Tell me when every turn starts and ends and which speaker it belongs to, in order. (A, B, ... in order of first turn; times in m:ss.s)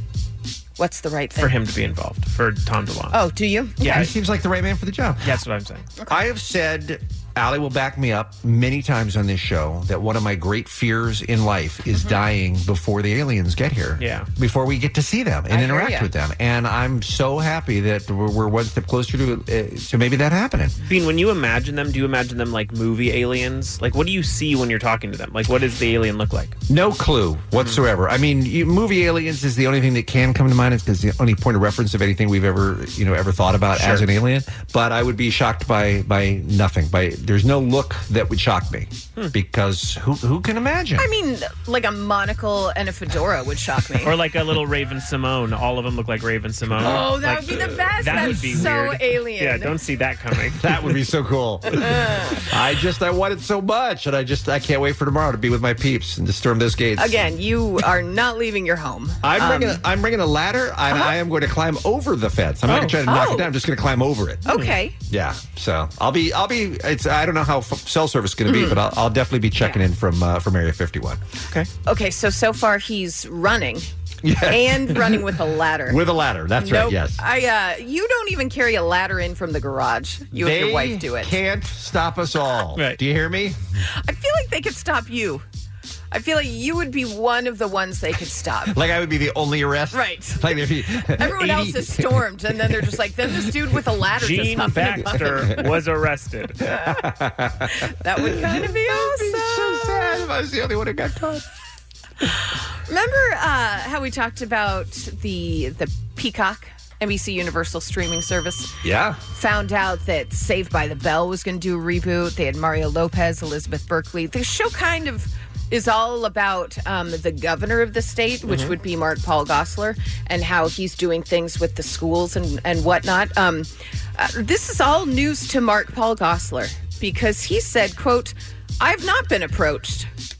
0:00.8-0:01.6 A
0:01.4-0:03.2 B
0:03.1-0:04.1 A
0:03.8-0:04.1 B
0:03.8-0:05.4 C
0:05.2-0:05.9 B
0:06.1-0:20.8 C
0:11.9-0:12.2 A
0:14.0-0:14.3 B
0:15.5-0:16.1 A
0:20.8-0:26.6 B
0:26.7-0:41.1 C
0:27.5-0:27.8 B
0:33.7-0:34.1 B
0:41.0-0:44.1 A
0:44.0-0:51.0 B
0:46.8-0:49.7 A
0:46.8-0:47.1 C
0:48.0-0:48.5 C
0:50.6-0:57.3 C
0:51.8-0:52.4 A
0:57.0-0:59.8 A
0:59.2-1:04.5 C
1:00.9-1:01.1 A
1:02.7-1:03.0 B
1:03.0-1:03.5 A
1:04.4-1:04.9 A
1:04.5-1:04.8 B
1:05.1-1:11.2 C
1:08.5-1:08.8 A
1:09.6-1:09.8 A
1:11.8-1:13.9 A
1:14.2-1:15.2 C
1:14.4-1:16.0 A
1:15.9-1:17.2 C
1:16.6-1:21.4 A
1:20.3-1:23.6 C
1:24.0-1:25.4 A
1:26.1-1:28.8 A
1:28.7-1:32.2 C
1:29.9-1:30.5 A
1:31.2-1:35.7 A
1:34.2-1:36.6 B
1:34.8-1:35.4 C
1:36.6-1:41.4 C
1:37.8-1:40.2 A
1:42.8-1:48.7 A
1:48.8-1:49.2 C
1:49.3-2:10.1 A
1:58.5-1:58.7 B